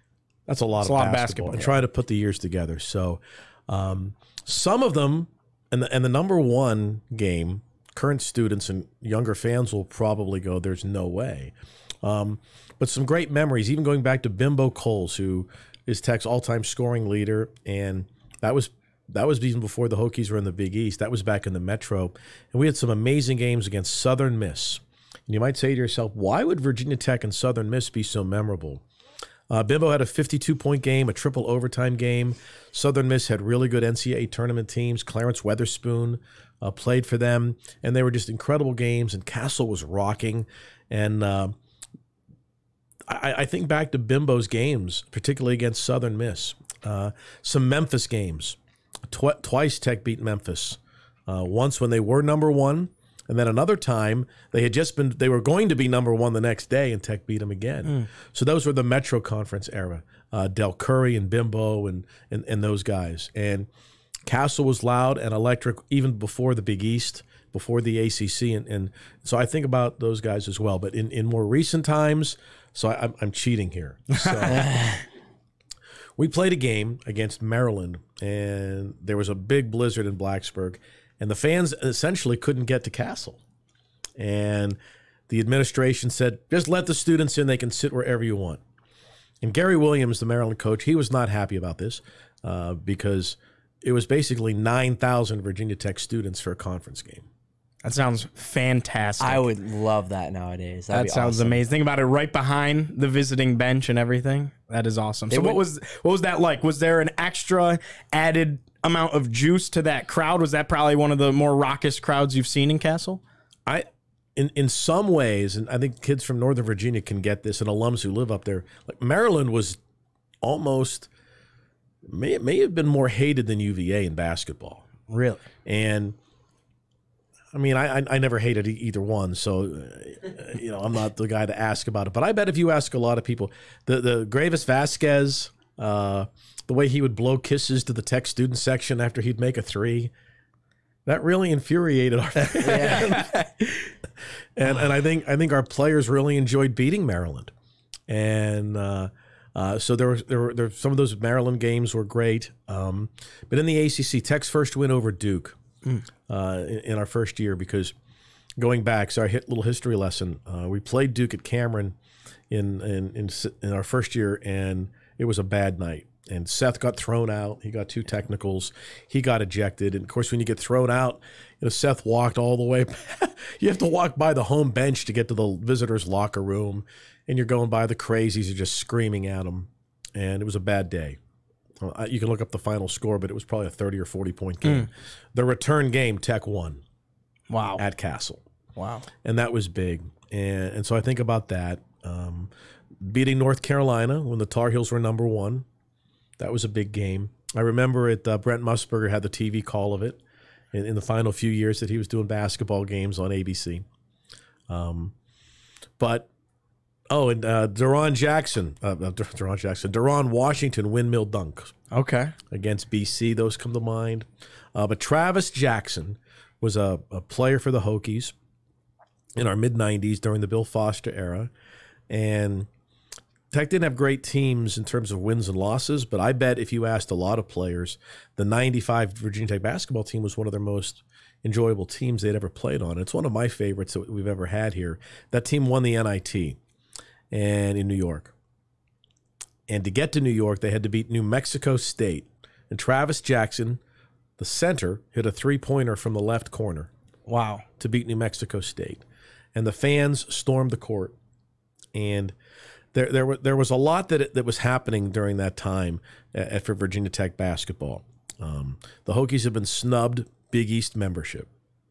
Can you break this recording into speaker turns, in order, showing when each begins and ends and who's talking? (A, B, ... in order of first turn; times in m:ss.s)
0:00.5-0:28.8 A
0:00.8-0:01.8 B
0:29.5-0:41.6 A
0:43.1-1:03.7 A
1:04.2-1:14.9 A
1:14.2-1:14.9 B
1:16.2-1:23.4 A
1:24.2-1:24.8 A
1:25.3-1:28.6 A
1:29.4-1:37.3 A
1:37.8-1:39.5 B
1:39.2-1:41.6 C
1:40.9-1:53.2 B
1:45.3-1:45.6 C
1:53.6-1:59.8 A
2:00.4-2:01.1 A
2:02.0-2:04.8 A
2:05.1-2:05.4 B
2:05.6-2:06.2 A
2:07.5-2:20.1 A
2:21.0-2:23.3 A
2:22.4-2:23.6 B
2:22.6-2:23.2 C
2:24.6-2:27.5 A
2:28.1-2:35.6 A
2:36.3-2:37.9 A
2:38.6-2:42.0 A
2:42.5-3:01.2 A
3:01.8-3:06.8 A
3:07.5-3:07.8 B
3:07.8-3:08.4 A
3:08.8-3:09.1 B
3:09.2-3:15.6 A
3:16.4-3:20.2 A
3:20.7-3:23.8 A
3:24.7-3:25.1 A
3:26.0-3:26.3 A
3:27.1-3:31.7 A
3:31.9-3:32.3 B
3:32.5-3:38.3 A
3:39.4-3:41.5 A
3:42.1-3:42.7 A
3:43.5-3:56.6 A
3:57.3-3:58.3 A
3:59.7-4:03.8 A
4:04.4-4:06.9 A
4:07.3-4:07.6 B
4:07.8-4:09.0 A
4:09.5-4:11.1 A
4:11.9-4:12.3 A
4:12.9-4:21.5 A